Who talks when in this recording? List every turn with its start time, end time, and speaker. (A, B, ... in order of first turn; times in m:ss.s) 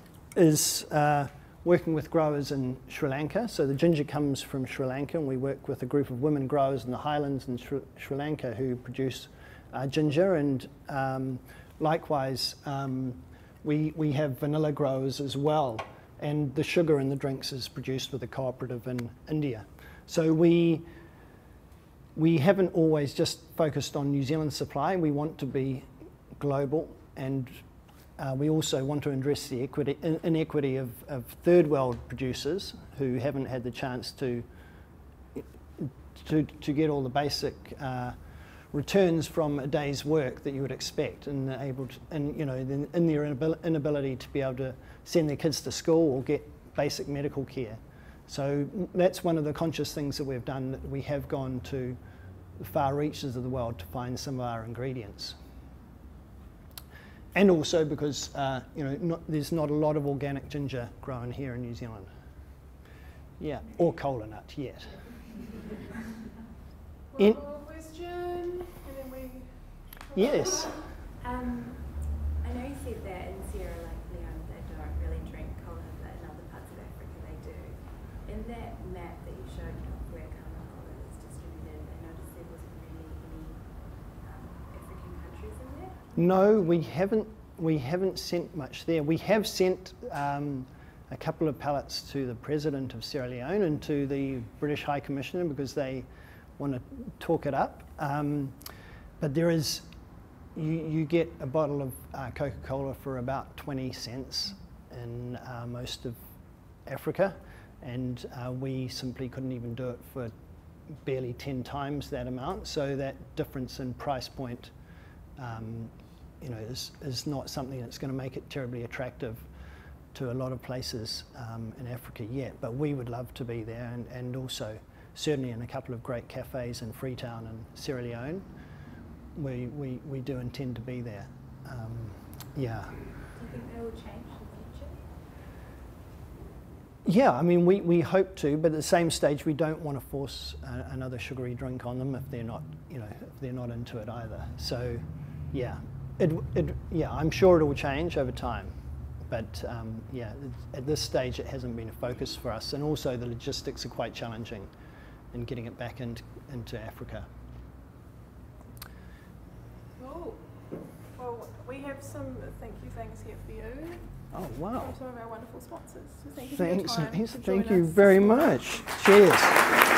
0:00.3-0:20.8 A
0:22.2-0:25.8 A
0:26.4-0:27.6 A
0:28.2-0:34.4 A
0:35.4-0:38.2 A
0:38.7-0:52.0 A
0:52.6-0:55.4 A
0:57.3-1:02.1 A
1:03.4-1:05.1 A
1:07.1-1:10.8 B
1:10.1-1:10.7 A
1:11.2-1:26.1 C
1:26.2-1:36.0 A
1:36.6-1:38.6 A
1:39.2-1:39.8 A
1:40.5-1:46.2 A
1:46.8-1:50.3 A
1:51.0-1:54.7 A
1:55.4-1:59.4 A
2:00.1-2:08.4 A
2:09.4-2:13.0 A
2:13.3-2:15.0 C
2:17.0-2:28.7 A
2:29.3-2:34.7 A
2:35.3-2:37.3 A
2:40.0-2:40.4 B
2:41.1-2:44.0 B
2:44.3-2:44.9 A
2:44.7-2:48.8 B
2:46.4-2:49.6 A